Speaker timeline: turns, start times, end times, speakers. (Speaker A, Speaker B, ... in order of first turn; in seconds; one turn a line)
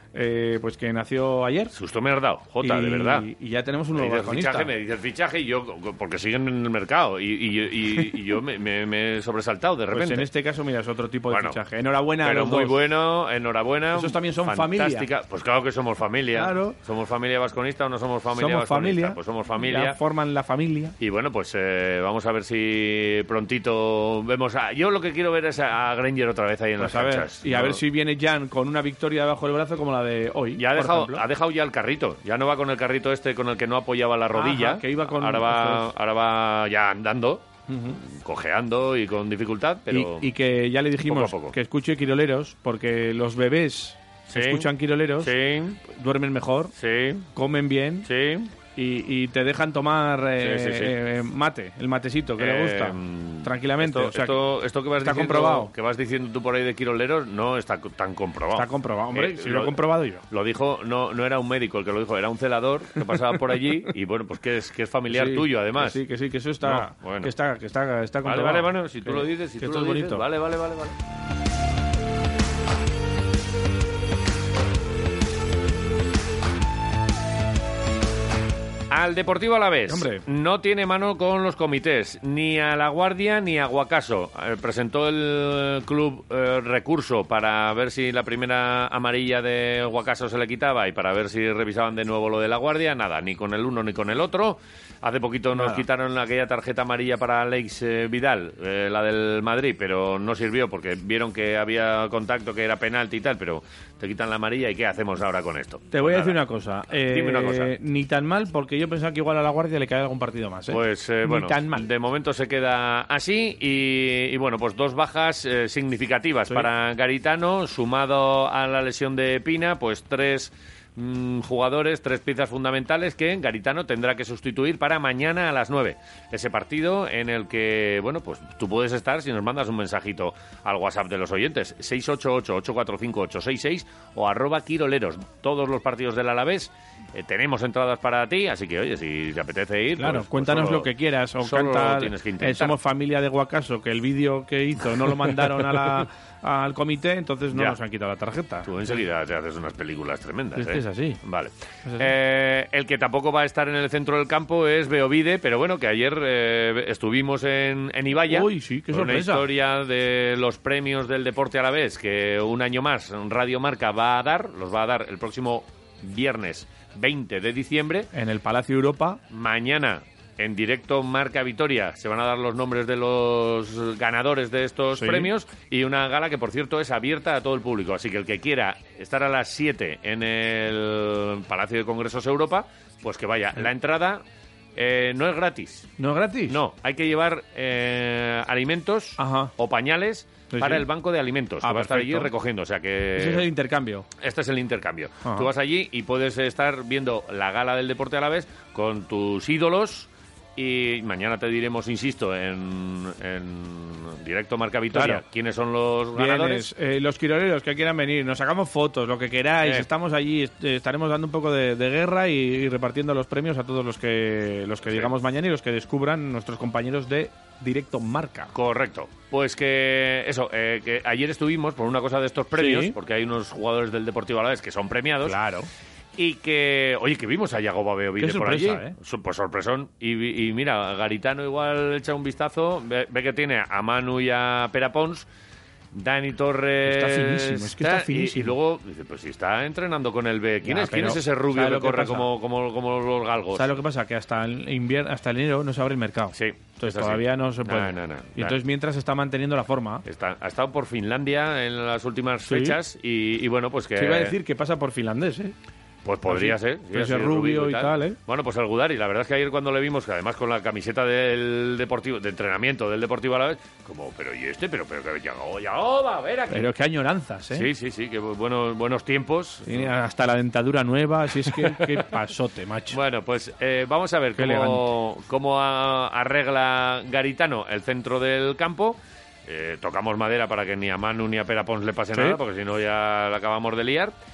Speaker A: 0.1-1.7
Speaker B: 1.7-3.3
Speaker A: 2.6-4.7
Speaker B: 4.0-10.3
Speaker A: 9.9-12.7
Speaker B: 11.3-11.6
Speaker B: 12.2-20.0
Speaker A: 13.9-15.1
Speaker A: 16.4-16.8
Speaker A: 18.4-20.9
Speaker B: 21.0-27.8
Speaker A: 26.8-31.2
Speaker B: 30.6-37.4
Speaker A: 34.4-35.9
Speaker A: 37.7-38.0
Speaker B: 38.0-40.3
Speaker A: 39.9-45.3
Speaker B: 41.1-41.5
Speaker B: 44.3-44.7
Speaker B: 45.2-45.8
Speaker A: 45.9-46.7
Speaker B: 46.8-47.3
Speaker A: 47.4-48.1
Speaker B: 48.1-48.5
Speaker A: 48.8-54.4
Speaker B: 50.4-51.0
Speaker B: 52.4-59.8
Speaker A: 55.0-55.7
Speaker A: 58.5-60.2
Speaker B: 60.3-66.0
Speaker A: 65.1-70.2
Speaker B: 66.6-67.3
Speaker B: 68.2-71.0
Speaker B: 78.9-106.4
Speaker A: 79.9-80.2
Speaker A: 95.5-95.8
Speaker A: 105.9-111.9
Speaker B: 107.0-107.7
Speaker B: 110.7-140.9
Speaker A: 140.0-148.7
Speaker B: 141.4-142.8
Speaker B: 145.2-145.7
Speaker B: 148.7-168.1
Speaker A: 150.6-151.2
Speaker A: 151.9-152.1
Speaker A: 158.3-159.5
Speaker A: 168.1-169.2
Speaker B: 169.3-184.2
Speaker A: 174.9-175.3
Speaker B: 184.8-185.9
Speaker A: 186.0-186.6
Speaker B: 186.5-193.5
Speaker A: 189.2-189.5
Speaker A: 190.5-190.9
Speaker A: 191.6-192.3
Speaker A: 193.2-194.1
Speaker B: 194.2-206.7
Speaker A: 195.2-195.5
Speaker A: 204.9-205.2
Speaker A: 206.2-218.5
Speaker B: 214.9-215.1
Speaker B: 218.5-225.4
Speaker A: 222.5-222.9
Speaker A: 225.2-225.7
Speaker B: 226.2-235.3
Speaker A: 228.2-228.9
Speaker B: 235.9-243.7
Speaker A: 236.8-238.6
Speaker A: 240.7-242.3
Speaker A: 243.6-250.0
Speaker B: 246.3-248.6
Speaker B: 250.1-254.3
Speaker A: 252.5-252.8
Speaker A: 254.0-255.5
Speaker B: 256.1-266.7
Speaker A: 256.3-258.2
Speaker A: 266.5-267.7
Speaker B: 267.5-269.9
Speaker A: 269.7-273.0
Speaker B: 271.5-271.8
Speaker B: 272.9-284.1
Speaker A: 274.4-274.8